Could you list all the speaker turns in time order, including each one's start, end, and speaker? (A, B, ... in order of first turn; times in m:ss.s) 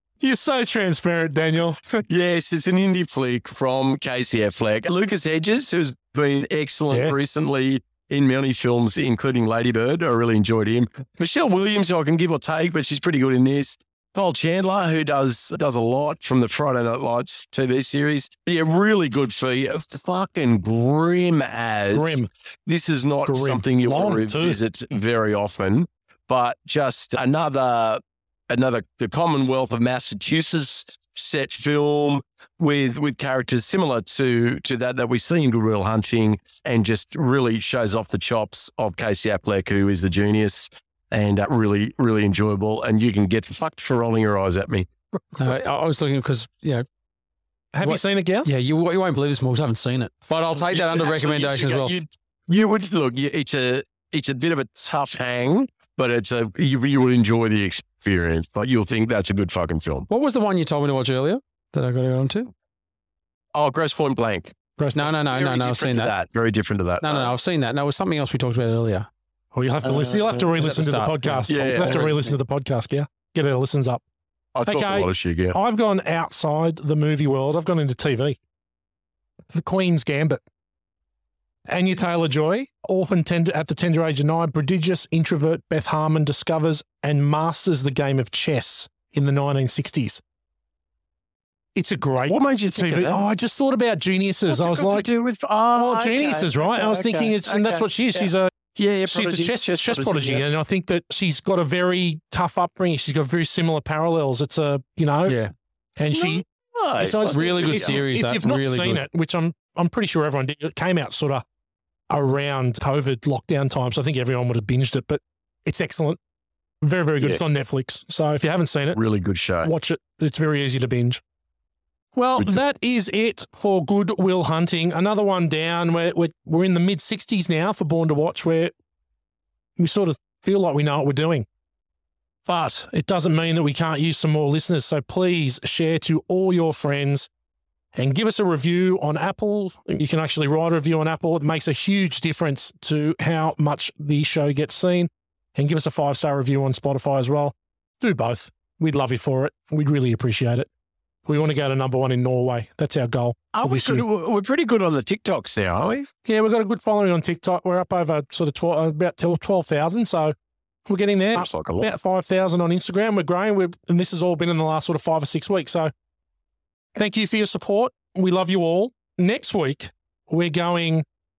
0:00.2-0:01.8 A
0:02.1-0:44.9 B
0:06.9-0:07.2 A
0:21.9-0:22.3 A
0:23.3-0:24.6 A
0:45.4-0:46.8 C
0:47.7-0:48.5 A
0:47.8-0:51.9 C
0:50.6-1:00.1 B
1:00.1-1:02.5 C
1:03.5-1:07.3 B
1:04.8-1:05.0 A
1:05.0-1:06.1 C
1:07.0-1:09.1 C
1:09.5-1:14.0 A
1:09.9-1:10.4 B
1:10.6-1:12.4 C
1:11.5-1:12.0 B
1:14.6-1:15.6 B
1:14.6-1:18.4 A
1:19.5-1:20.4 A
1:21.7-1:30.2 A
1:31.8-1:35.1 A
1:32.3-1:33.2 B
1:34.5-1:40.4 B
1:35.8-1:38.5 A
1:39.1-1:45.4 A
1:46.0-1:46.4 A
1:46.1-1:48.0 B
1:47.0-1:51.4 A
1:47.3-1:49.0 C
1:52.1-1:56.2 A
1:56.8-1:59.0 A
1:58.9-1:59.7 B
1:59.6-2:01.2 A
2:02.2-2:08.7 A
2:09.8-2:11.5 A
2:12.5-2:17.3 A
2:18.0-2:30.7 A
2:31.3-2:34.0 A
2:33.5-2:36.1 B
2:36.2-2:40.4 A
2:40.9-2:45.9 A
2:41.4-2:41.9 B
2:47.0-2:51.0 A